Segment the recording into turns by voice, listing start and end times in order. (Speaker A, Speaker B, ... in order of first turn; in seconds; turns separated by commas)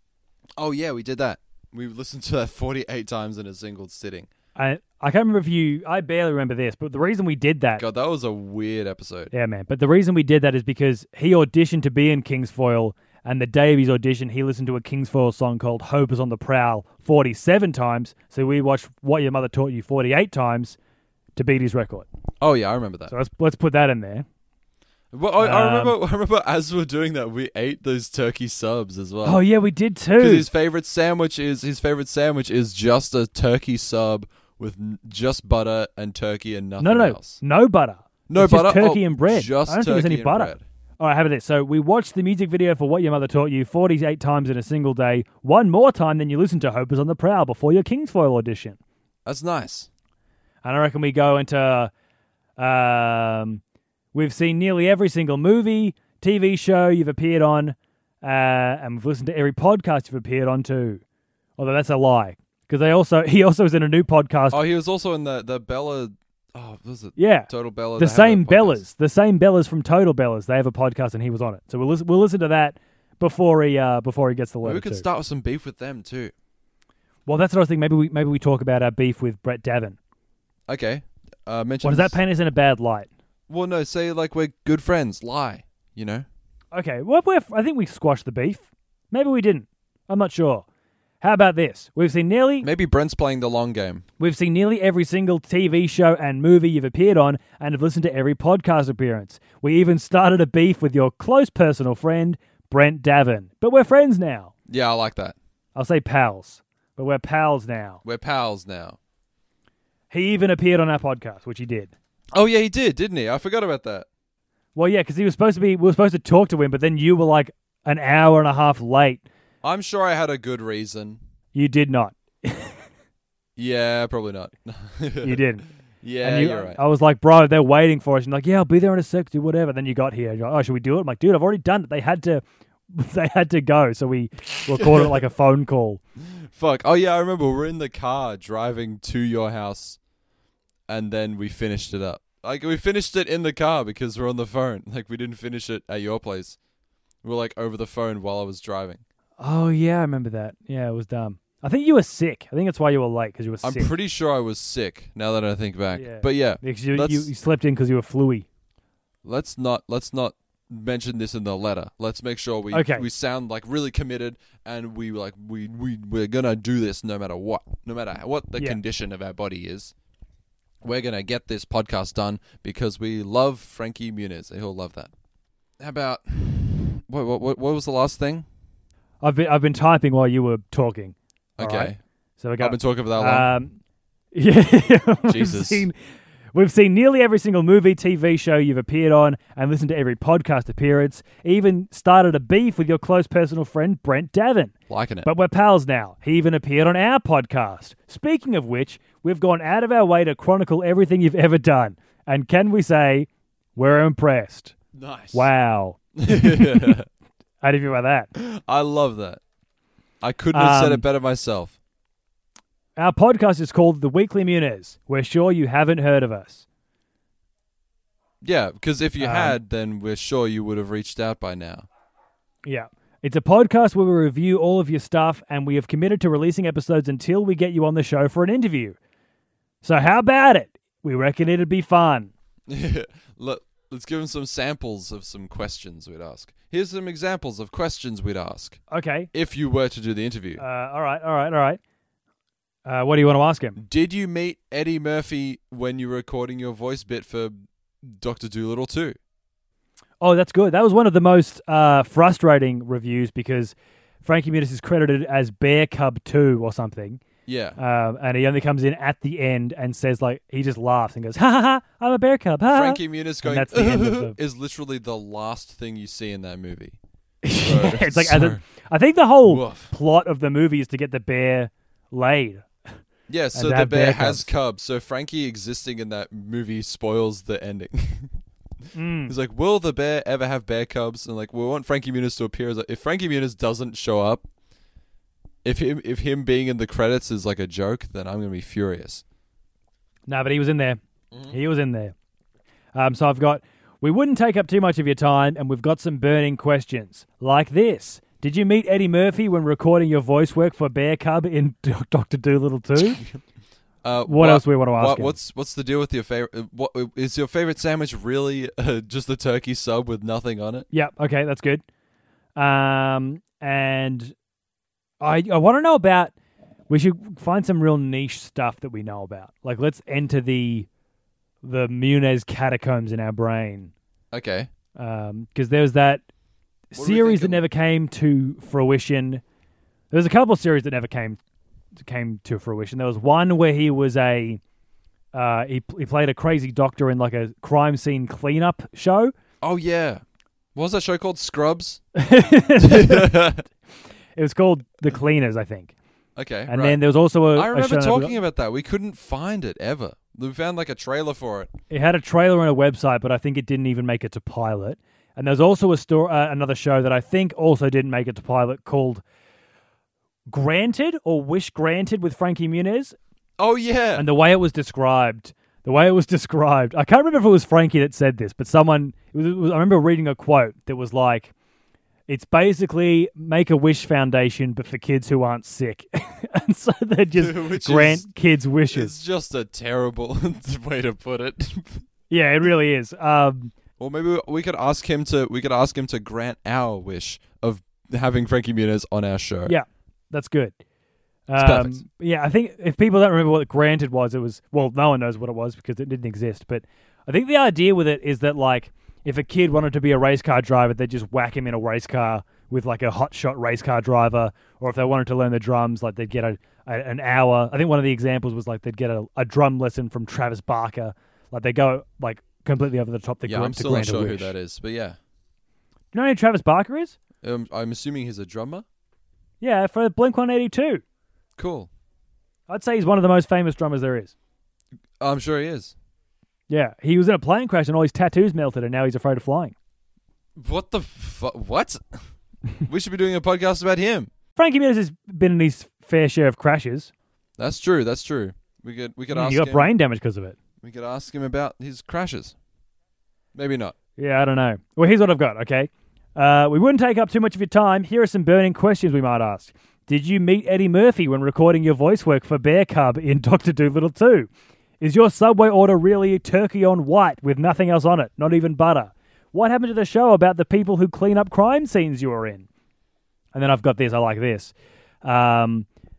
Speaker A: 0.6-4.3, Speaker B: 4.5-7.8, Speaker A: 7.8-9.3, Speaker B: 9.3-20.8, Speaker B: 21.4-22.1, Speaker A: 22.4-23.1, Speaker B: 23.1-24.2, Speaker A: 25.1-29.4, Speaker B: 25.4-25.9, Speaker B: 29.2-30.5, Speaker A: 30.2-37.4, Speaker B: 36.8-48.8, Speaker A: 38.3-40.6, Speaker A: 49.2-49.9, Speaker B: 50.6-51.9, Speaker B: 52.6-53.6, Speaker B: 54.1-61.0, Speaker B: 61.6-64.6, Speaker A: 64.5-68.8, Speaker B: 67.2-75.0, Speaker A: 74.6-76.3, Speaker B: 77.2-80.0, Speaker A: 80.7-82.2, Speaker B: 81.8-83.1, Speaker A: 83.5-86.2, Speaker B: 86.7-90.6, Speaker B: 91.2-92.7, Speaker A: 92.6-94.0, Speaker B: 94.2-104.5, Speaker A: 104.7-105.3, Speaker B: 105.7-108.0, Speaker A: 108.0-109.0, Speaker B: 110.1-111.9, Speaker A: 112.3-114.1, Speaker B: 114.7-119.2, Speaker A: 119.6-121.2, Speaker B: 121.5-122.8, Speaker A: 123.6-125.4, Speaker B: 125.2-125.7, Speaker A: 126.0-126.8, Speaker B: 126.2-136.0, Speaker A: 134.8-135.1, Speaker A: 136.2-140.0, Speaker A: 140.9-146.6, Speaker A: 147.2-149.0, Speaker B: 149.4-153.9, Speaker A: 153.6-157.3, Speaker B: 155.9-158.5, Speaker A: 159.2-169.9, Speaker B: 162.7-163.1, Speaker A: 170.8-175.1, Speaker A: 175.8-178.4, Speaker B: 179.2-183.8, Speaker A: 181.6-182.0, Speaker A: 182.6-183.5, Speaker B: 184.3-185.9, Speaker A: 185.3-185.9, Speaker B: 186.5-194.7, Speaker A: 194.9-195.3, Speaker B: 195.2-204.8, Speaker A: 204.9-205.5, Speaker B: 205.3-206.9, Speaker A: 206.2-207.1, Speaker B: 207.6-208.3, Speaker A: 208.3-209.4, Speaker A: 210.2-211.8, Speaker B: 210.5-211.0, Speaker B: 212.9-216.6, Speaker A: 218.4-221.9, Speaker B: 219.2-219.6, Speaker B: 222.6-229.0, Speaker B: 229.8-232.3, Speaker A: 232.7-238.8, Speaker B: 238.9-239.3, Speaker A: 239.3-240.6, Speaker B: 240.6-241.8, Speaker B: 242.8-243.8, Speaker A: 243.8-249.2, Speaker B: 250.2-257.2, Speaker A: 257.4-257.8, Speaker B: 257.8-264.4, Speaker A: 262.7-267.0, Speaker B: 267.4-272.7, Speaker A: 267.6-268.6, Speaker A: 269.4-269.9, Speaker A: 273.3-278.4, Speaker B: 273.5-274.5, Speaker B: 278.9-279.3, Speaker A: 279.3-284.4, Speaker A: 285.6-289.2, Speaker B: 290.3-292.1, Speaker B: 292.9-303.2, Speaker A: 304.0-310.9, Speaker B: 304.2-305.3, Speaker B: 310.9-311.8, Speaker B: 312.6-314.3, Speaker B: 315.2-316.3, Speaker B: 316.9-320.9, Speaker B: 321.6-323.9, Speaker A: 324.3-324.7, Speaker B: 324.9-326.2, Speaker B: 326.9-329.4, Speaker A: 326.9-327.6, Speaker B: 330.1-331.4, Speaker B: 332.0-334.6, Speaker B: 335.3-339.3, Speaker A: 339.6-340.2, Speaker A: 340.7-342.0, Speaker B: 342.1-343.5, Speaker A: 342.8-343.6, Speaker B: 344.4-345.9, Speaker A: 346.4-347.0, Speaker B: 346.7-348.4, Speaker A: 347.5-351.7, Speaker B: 351.9-359.2, Speaker B: 360.5-363.1, Speaker A: 363.6-364.2, Speaker B: 364.1-371.5, Speaker B: 372.3-379.1, Speaker A: 377.4-378.2, Speaker A: 378.9-382.1, Speaker B: 382.3-383.7, Speaker A: 384.0-389.7, Speaker B: 389.6-390.8, Speaker B: 391.5-414.5, Speaker A: 391.6-392.0, Speaker A: 413.4-415.2, Speaker B: 416.1-417.2, Speaker A: 417.4-418.8, Speaker B: 419.6-421.0, Speaker A: 421.6-421.9, Speaker B: 422.7-424.3, Speaker A: 425.2-425.9, Speaker B: 426.7-429.7, Speaker A: 430.6-432.2, Speaker A: 432.8-434.3, Speaker B: 434.6-437.1, Speaker A: 437.6-439.9, Speaker B: 439.3-440.6, Speaker A: 440.8-442.5, Speaker A: 443.5-443.9, Speaker B: 444.2-454.5, Speaker B: 455.0-462.7, Speaker B: 463.5-464.7, Speaker B: 465.2-465.9